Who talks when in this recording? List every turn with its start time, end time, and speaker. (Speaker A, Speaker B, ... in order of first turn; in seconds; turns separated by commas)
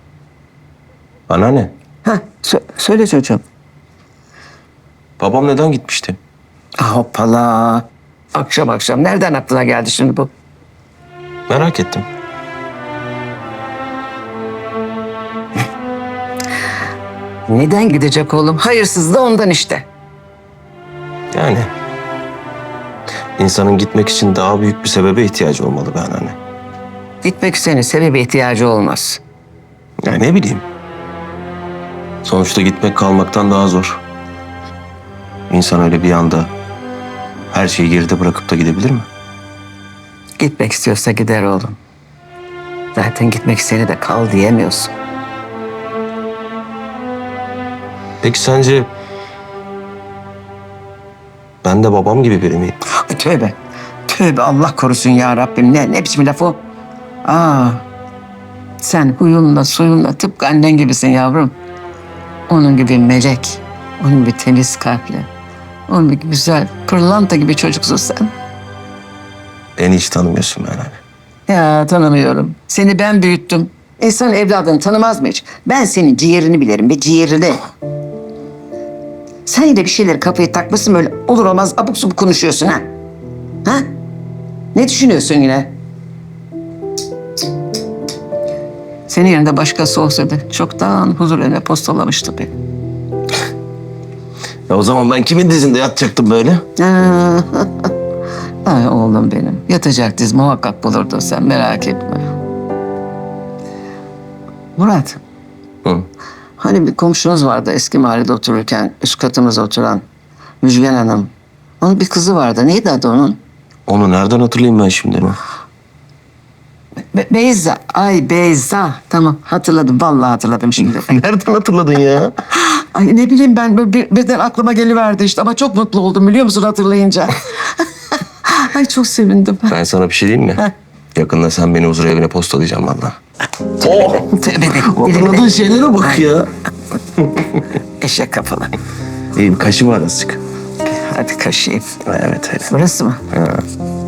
Speaker A: 1.3-1.7, Speaker B: 2.0-3.4, Speaker A: 5.2-6.2, Speaker B: 6.8-10.3, Speaker A: 11.5-12.1, Speaker B: 17.5-19.9, Speaker A: 21.3-21.7, Speaker A: 23.4-26.4, Speaker B: 27.2-29.2, Speaker A: 30.1-30.6, Speaker A: 32.2-34.0, Speaker A: 35.5-36.5, Speaker A: 37.5-39.1, Speaker B: 40.4-41.8, Speaker B: 42.9-44.9, Speaker A: 48.2-48.9, Speaker A: 51.6-52.8, Speaker B: 52.9-53.5, Speaker B: 54.1-56.6, Speaker B: 57.2-57.8, Speaker B: 58.8-61.5, Speaker B: 62.5-65.3, Speaker B: 65.9-68.3, Speaker A: 69.8-71.0, Speaker B: 71.5-77.7, Speaker B: 79.5-82.8, Speaker B: 84.7-85.7, Speaker B: 89.1-92.5, Speaker A: 94.7-96.6, Speaker B: 96.8-97.9, Speaker B: 98.6-102.3, Speaker B: 104.8-105.2, Speaker B: 106.6-110.0, Speaker B: 110.6-113.4, Speaker A: 113.9-115.4, Speaker B: 117.1-121.2, Speaker A: 120.8-122.3, Speaker B: 122.5-129.7, Speaker A: 129.7-133.2, Speaker A: 133.8-136.5, Speaker B: 133.8-136.3, Speaker A: 137.2-137.7, Speaker B: 138.0-138.7, Speaker A: 139.3-140.4, Speaker B: 140.8-142.0, Speaker A: 142.0-142.7, Speaker B: 142.7-143.2, Speaker A: 143.3-143.6